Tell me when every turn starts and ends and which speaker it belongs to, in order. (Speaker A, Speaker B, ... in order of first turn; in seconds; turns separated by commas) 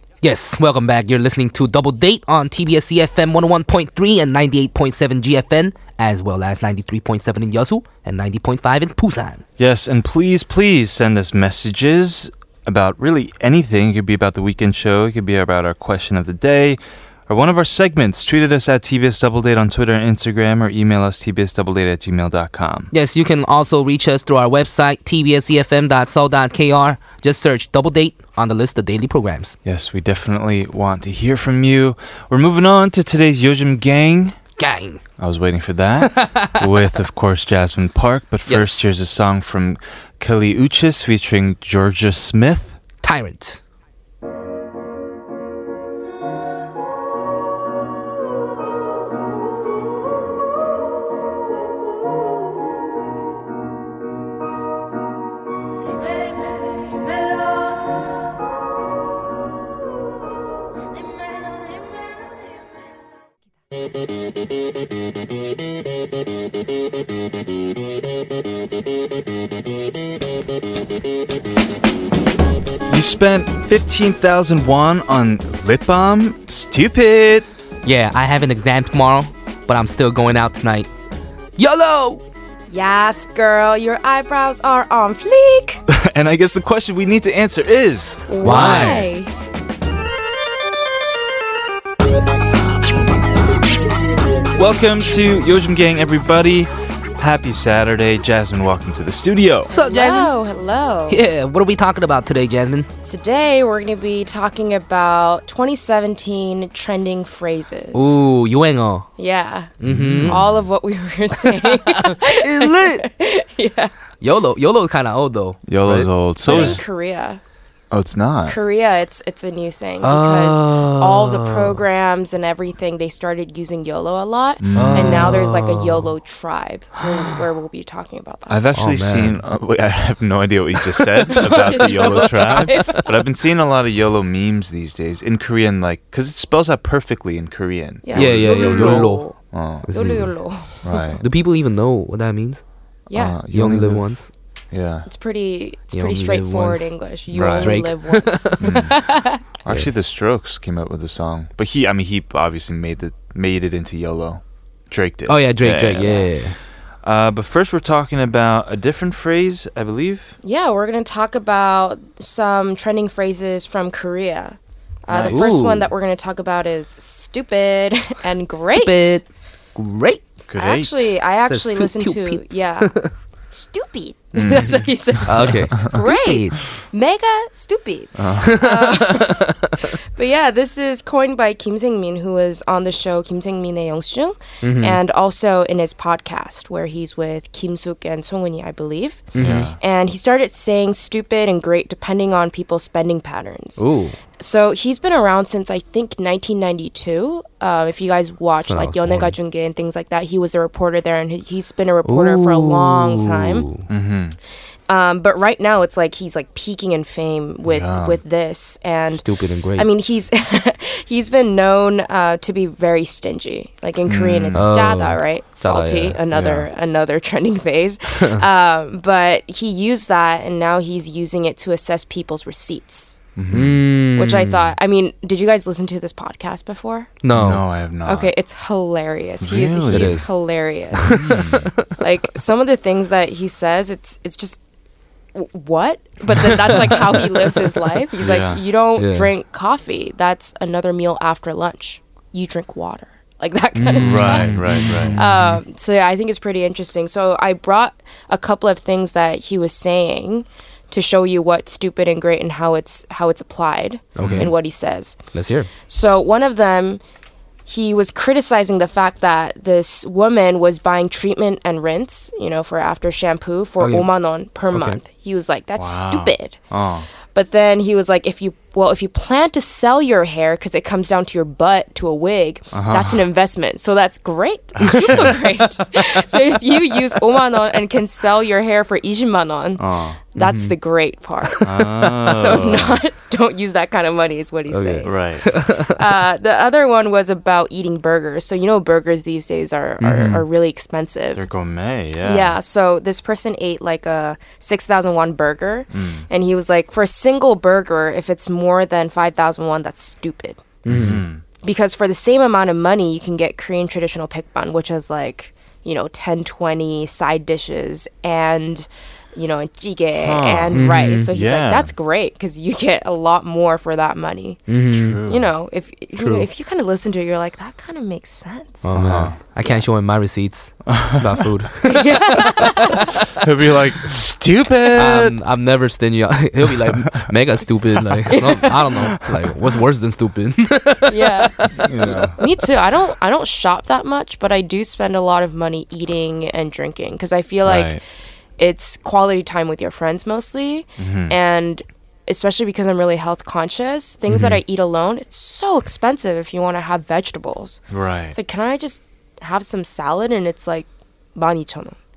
Speaker A: 0.2-9.4, Speaker B: 9.6-22.9, Speaker A: 22.9-29.5, Speaker B: 29.6-34.4, Speaker A: 34.6-35.0, Speaker B: 35.2-42.8, Speaker A: 36.0-36.7, Speaker A: 38.5-38.9, Speaker A: 43.0-43.6, Speaker B: 72.9-77.5, Speaker A: 77.8-80.9, Speaker A: 81.6-82.2, Speaker C: 82.7-85.8, Speaker B: 85.9-89.0, Speaker C: 88.3-89.3, Speaker A: 88.4-89.0, Speaker B: 94.5-99.7, Speaker A: 99.7-100.3, Speaker C: 99.7-101.2, Speaker A: 101.1-102.9, Speaker C: 103.0-108.2, Speaker A: 107.9-109.1, Speaker C: 109.2-113.9, Speaker A: 109.8-110.4, Speaker B: 109.8-110.6, Speaker A: 111.7-113.1, Speaker A: 114.2-116.8, Speaker B: 115.7-116.8, Speaker C: 116.4-117.4, Speaker B: 117.9-118.6, Speaker C: 118.5-128.6, Speaker A: 120.0-121.8, Speaker B: 124.6-125.4, Speaker A: 124.7-126.1, Speaker B: 128.5-139.9, Speaker A: 128.8-129.4, Speaker C: 131.3-133.0, Speaker A: 131.9-133.0, Speaker C: 138.0-140.8, Speaker A: 138.1-139.3, Speaker A: 139.8-140.3, Speaker B: 140.8-141.2, Speaker A: 141.2-142.6, Speaker C: 143.1-143.4, Speaker B: 143.1-144.1, Speaker A: 143.5-144.3, Speaker B: 144.7-145.1, Speaker C: 145.1-149.4, Speaker A: 145.9-146.9, Speaker B: 147.3-147.8, Speaker A: 147.5-148.8, Speaker B: 148.6-149.0, Speaker B: 149.6-156.3, Speaker A: 155.3-156.6, Speaker B: 157.0-160.4, Speaker C: 160.4-169.2, Speaker B: 165.1-165.6, Speaker A: 165.2-165.9, Speaker A: 168.7-170.2, Speaker B: 170.5-171.2, Speaker C: 170.6-172.9, Speaker A: 171.4-173.1, Speaker C: 173.5-193.8, Speaker B: 174.3-175.9, Speaker A: 175.2-176.6, Speaker B: 178.2-178.6, Speaker A: 178.4-179.9, Speaker A: 184.6-185.0, Speaker A: 189.3-189.7, Speaker B: 189.4-189.8, Speaker A: 193.8-194.2, Speaker C: 194.4-203.7, Speaker A: 198.7-199.3, Speaker A: 202.0-203.8, Speaker B: 203.9-204.4, Speaker C: 204.9-223.2, Speaker B: 207.6-208.2, Speaker A: 209.2-209.9, Speaker B: 214.0-214.7, Speaker A: 214.5-216.2, Speaker B: 216.3-216.7, Speaker B: 223.3-223.8, Speaker A: 223.5-224.7, Speaker C: 224.1-227.2, Speaker A: 227.2-227.7, Speaker B: 227.3-228.3, Speaker C: 228.0-234.6, Speaker B: 229.4-230.2, Speaker A: 229.9-230.2, Speaker A: 231.0-231.9, Speaker B: 231.1-231.7, Speaker C: 235.3-255.2, Speaker A: 236.4-236.9, Speaker B: 238.2-238.6, Speaker A: 238.9-239.3, Speaker A: 243.7-245.6, Speaker B: 244.0-245.2, Speaker A: 254.2-254.6, Speaker B: 254.2-254.5, Speaker A: 255.3-255.7, Speaker C: 255.9-257.0, Speaker C: 257.6-266.6, Speaker A: 263.8-264.1, Speaker A: 264.7-265.0, Speaker B: 265.8-267.1, Speaker C: 267.3-291.4, Speaker B: 272.7-273.2, Speaker B: 274.8-275.4, Speaker A: 274.9-276.2, Speaker B: 279.8-280.2, Speaker A: 280.4-280.7, Speaker A: 281.4-282.6, Speaker B: 281.6-283.0, Speaker A: 284.7-285.9, Speaker B: 285.0-285.5, Speaker A: 290.0-290.4, Speaker B: 291.3-292.6, Speaker C: 292.2-300.7, Speaker B: 295.9-296.3, Speaker A: 300.8-301.2, Speaker B: 300.9-301.4, Speaker C: 301.6-314.7, Speaker B: 310.1-311.9, Speaker A: 310.7-311.3, Speaker A: 314.7-315.2, Speaker B: 314.9-315.5, Speaker C: 315.2-319.0, Speaker A: 316.1-316.5, Speaker A: 318.8-322.7, Speaker B: 318.9-319.4, Speaker B: 320.9-321.2, Speaker C: 321.9-323.2, Speaker B: 323.3-325.4, Speaker A: 324.9-332.3, Speaker C: 331.1-331.7, Speaker B: 331.8-332.4, Speaker C: 332.3-338.0, Speaker B: 337.6-338.0, Speaker C: 338.6-347.8, Speaker B: 341.0-341.4, Speaker B: 344.3-344.6, Speaker B: 347.9-348.4, Speaker C: 348.3-352.0